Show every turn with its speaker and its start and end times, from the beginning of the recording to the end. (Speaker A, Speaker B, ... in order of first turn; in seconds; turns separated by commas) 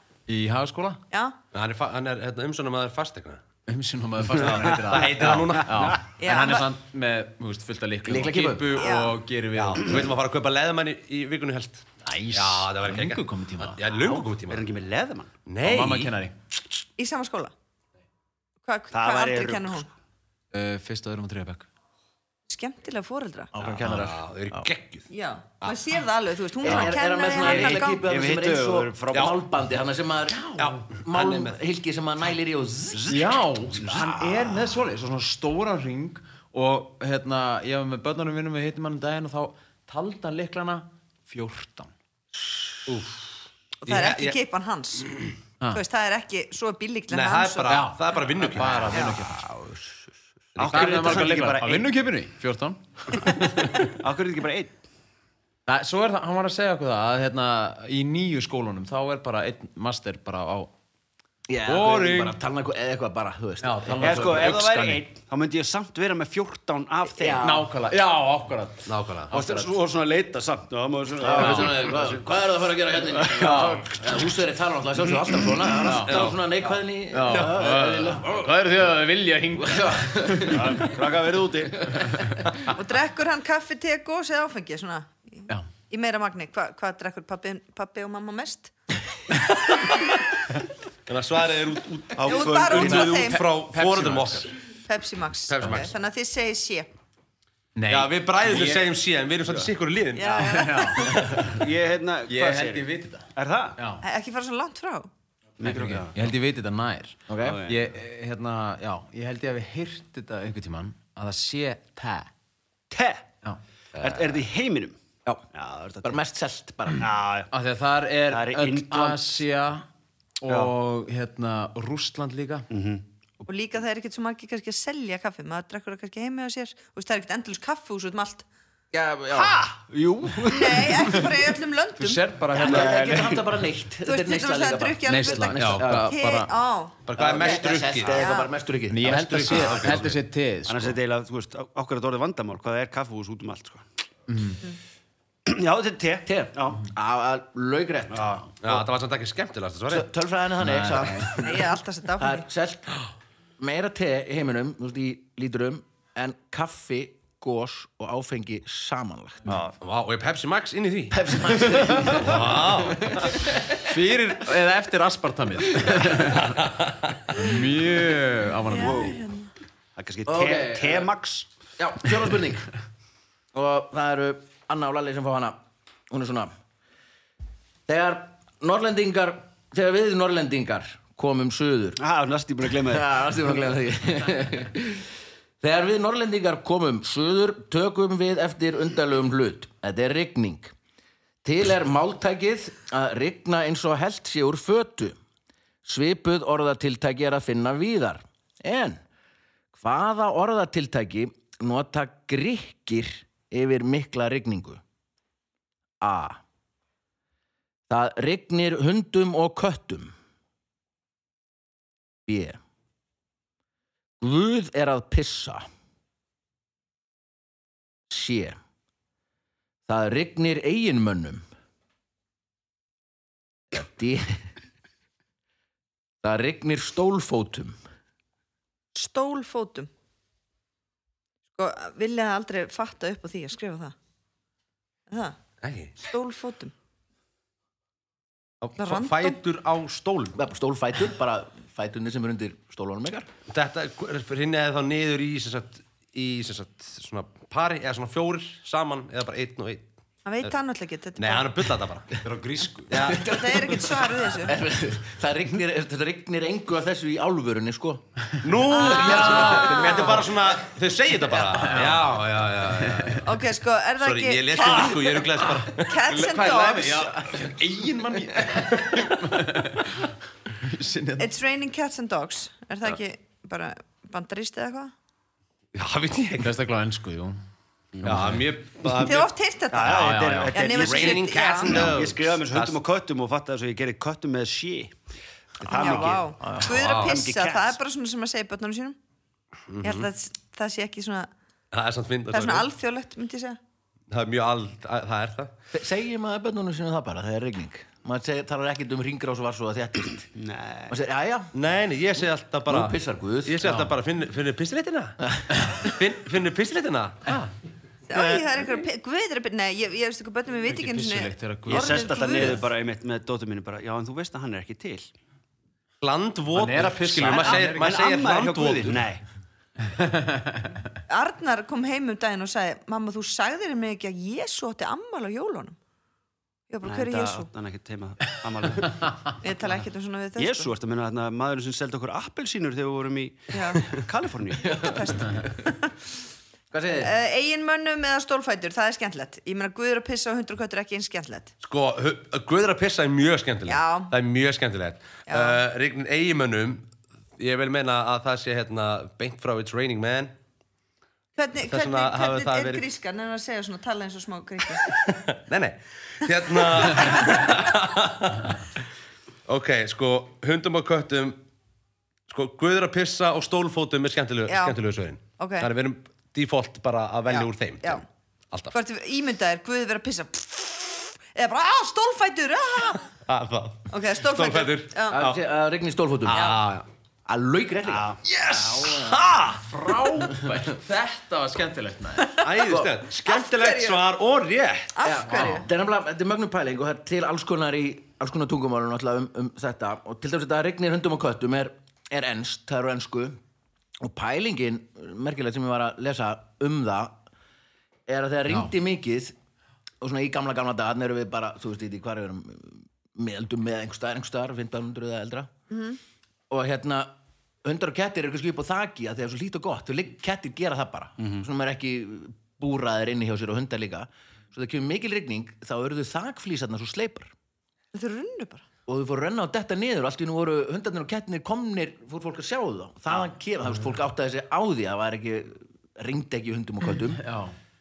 Speaker A: 0.3-1.0, Speaker B: 1.5-3.4, Speaker A: 3.7-10.1, Speaker B: 4.4-6.0, Speaker C: 6.2-6.7, Speaker D: 8.1-8.8, Speaker C: 8.8-9.2, Speaker B: 9.5-14.7, Speaker A: 12.0-13.8, Speaker E: 14.5-15.3, Speaker B: 15.5-16.1, Speaker A: 15.6-16.3, Speaker C: 17.0-17.5, Speaker C: 18.6-19.9, Speaker E: 18.9-19.9, Speaker A: 20.5-21.7, Speaker C: 22.5-23.5, Speaker D: 23.5-24.7, Speaker B: 23.6-25.1, Speaker C: 25.1-28.0, Speaker D: 26.6-30.5, Speaker A: 26.7-26.9, Speaker E: 27.4-29.4, Speaker A: 30.3-30.8, Speaker B: 30.6-31.6, Speaker D: 31.0-33.3, Speaker E: 32.9-33.4, Speaker A: 33.1-41.9, Speaker D: 33.8-34.5, Speaker B: 42.9-43.3, Speaker B: 43.8-44.4, Speaker C: 43.9-45.2, Speaker C: 45.7-47.8, Speaker B: 47.1-49.0, Speaker A: 47.7-49.5, Speaker D: 49.0-49.8, Speaker B: 50.5-51.2, Speaker E: 50.6-51.9, Speaker A: 50.6-53.9, Speaker E: 53.8-54.7, Speaker A: 55.7-60.7, Speaker D: 61.5-64.9, Speaker A: 61.6-62.4, Speaker A: 63.6-65.0, Speaker E: 64.0-67.5, Speaker D: 67.2-67.7, Speaker A: 67.4-69.7, Speaker B: 68.9-69.3, Speaker E: 69.3-72.3, Speaker D: 71.2-78.5, Speaker A: 71.3-71.7, Speaker E: 73.2-73.5, Speaker A: 73.3-73.8, Speaker A: 75.8-76.3, Speaker B: 76.1-76.3, Speaker A: 77.1-80.8, Speaker D: 79.5-80.8, Speaker E: 80.4-82.0, Speaker C: 82.7-88.7, Speaker B: 91.1-94.6, Speaker E: 92.2-93.2, Speaker C: 92.2-93.4, Speaker A: 93.1-94.5, Speaker C: 94.9-96.9, Speaker B: 95.5-95.9, Speaker A: 97.8-98.9, Speaker B: 97.9-101.0, Speaker C: 100.2-101.2, Speaker A: 100.3-101.6, Speaker E: 101.5-103.8, Speaker A: 102.3-104.0, Speaker C: 104.0-105.1, Speaker E: 105.6-106.2, Speaker A: 105.6-112.3, Speaker D: 107.3-107.6, Speaker E: 107.4-107.8, Speaker E: 112.9-113.3, Speaker E: 114.0-115.0, Speaker E: 115.5-116.2, Speaker D: 116.0-117.1, Speaker E: 117.0-117.5, Speaker A: 117.5-119.8, Speaker E: 118.3-119.4, Speaker A: 120.4-122.7, Speaker E: 122.7-123.0, Speaker C: 123.4-128.4, Speaker D: 128.9-129.6, Speaker E: 129.3-131.3, Speaker C: 130.5-132.2, Speaker A: 132.0-133.4, Speaker D: 132.5-136.1, Speaker E: 132.6-133.4, Speaker C: 134.0-138.5, Speaker A: 135.0-136.5, Speaker B: 135.6-135.8, Speaker B: 137.0-138.3, Speaker D: 137.2-140.1, Speaker A: 138.9-141.0, Speaker B: 139.3-140.1, Speaker E: 140.7-143.9, Speaker A: 144.3-144.6, Speaker E: 145.4-146.8, Speaker D: 146.2-148.4, Speaker E: 148.1-148.8, Speaker B: 148.6-150.1, Speaker D: 149.9-152.9, Speaker A: 150.6-151.4, Speaker C: 151.4-152.4, Speaker D: 153.6-159.6, Speaker E: 159.4-159.7, Speaker B: 159.8-161.2, Speaker D: 161.1-163.8, Speaker A: 161.7-162.2, Speaker B: 162.0-163.2, Speaker A: 163.7-166.6, Speaker B: 166.6-166.9, Speaker A: 167.3-169.2, Speaker C: 168.7-169.5, Speaker E: 168.8-169.2, Speaker E: 169.9-171.5, Speaker D: 170.2-171.1, Speaker D: 171.8-172.7, Speaker D: 173.5-176.5, Speaker D: 177.9-182.0, Speaker E: 182.0-183.2, Speaker D: 182.8-185.1, Speaker D: 185.6-190.7, Speaker D: 191.4-195.2, Speaker D: 195.8-199.0, Speaker D: 199.7-204.8, Speaker D: 206.0-206.4, Speaker D: 207.9-210.1, Speaker D: 212.2-212.6, Speaker D: 214.2-215.7, Speaker D: 218.1-218.6, Speaker D: 219.9-221.4, Speaker D: 223.7-224.4, Speaker D: 226.2-227.8, Speaker C: 228.9-229.9, Speaker C: 231.6-233.9, Speaker C: 235.1-235.4, Speaker B: 235.6-235.9, Speaker C: 236.0-236.7, Speaker B: 238.6-240.3, Speaker C: 238.8-239.4, Speaker D: 240.3-243.3, Speaker B: 243.5-249.8, Speaker C: 250.2-251.7, Speaker B: 251.2-252.3, Speaker A: 252.2-253.2, Speaker B: 252.9-253.2, Speaker D: 252.9-258.0, Speaker C: 253.2-254.6, Speaker B: 258.4-263.4, Speaker C: 258.7-260.3, Speaker A: 259.0-260.0, Speaker D: 259.0-260.1, Speaker A: 261.4-263.2, Speaker C: 263.2-267.2, Speaker B: 264.0-266.0, Speaker A: 266.1-271.3, Speaker C: 271.2-274.9, Speaker B: 275.7-276.5, Speaker A: 276.4-277.4, Speaker A: 278.0-278.4, Speaker B: 278.0-279.3, Speaker C: 278.9-281.9, Speaker E: 279.7-285.0, Speaker A: 279.9-280.6, Speaker B: 280.6-282.8, Speaker E: 285.6-287.8, Speaker D: 285.6-286.7, Speaker C: 285.7-289.0, Speaker B: 286.7-287.2, Speaker B: 289.7-290.1, Speaker C: 289.8-291.3, Speaker B: 291.7-292.7, Speaker C: 292.3-293.6, Speaker B: 294.1-295.5, Speaker D: 295.7-300.3, Speaker E: 300.3-300.9, Speaker D: 300.9-301.5, Speaker B: 301.5-305.2, Speaker D: 302.7-303.7, Speaker A: 303.6-303.9, Speaker D: 305.2-305.5, Speaker A: 305.5-305.8, Speaker B: 305.8-307.5, Speaker C: 308.1-312.7, Speaker B: 308.1-308.4, Speaker A: 310.7-312.4, Speaker E: 311.7-315.1, Speaker B: 316.0-319.0, Speaker A: 316.5-318.0, Speaker E: 317.4-319.2, Speaker A: 319.8-320.9, Speaker C: 321.1-325.8, Speaker C: 326.7-327.5, Speaker E: 326.8-329.0, Speaker C: 329.4-330.7, Speaker E: 330.4-335.0, Speaker C: 333.5-334.0, Speaker C: 334.6-335.9, Speaker D: 336.7-337.1, Speaker C: 337.0-341.5, Speaker B: 341.6-346.9, Speaker C: 343.6-344.1, Speaker C: 345.3-345.6, Speaker B: 347.4-350.3, Speaker C: 351.4-355.0, Speaker B: 351.6-352.8, Speaker B: 354.9-358.6, Speaker C: 356.6-357.1, Speaker B: 359.5-361.4, Speaker B: 362.3-368.7, Speaker C: 364.5-364.8, Speaker C: 365.4-365.7, Speaker C: 367.3-368.0, Speaker C: 368.7-373.1, Speaker B: 373.2-375.4, Speaker C: 373.9-375.2, Speaker D: 375.1-376.5, Speaker B: 376.3-376.9, Speaker C: 376.3-376.6, Speaker D: 377.2-379.2, Speaker E: 377.9-378.2, Speaker B: 378.4-379.7, Speaker A: 378.5-379.0, Speaker A: 379.7-382.4, Speaker D: 380.2-380.7, Speaker B: 382.4-385.0, Speaker D: 382.6-382.9, Speaker C: 383.2-384.0, Speaker C: 384.9-385.6, Speaker D: 385.0-393.4, Speaker A: 385.3-385.6, Speaker D: 394.0-397.2, Speaker D: 398.1-399.4, Speaker D: 400.0-405.5, Speaker C: 405.7-406.0, Speaker D: 406.5-417.3, Speaker E: 411.2-411.4, Speaker C: 417.9-418.6, Speaker D: 418.9-427.2, Speaker A: 427.1-427.5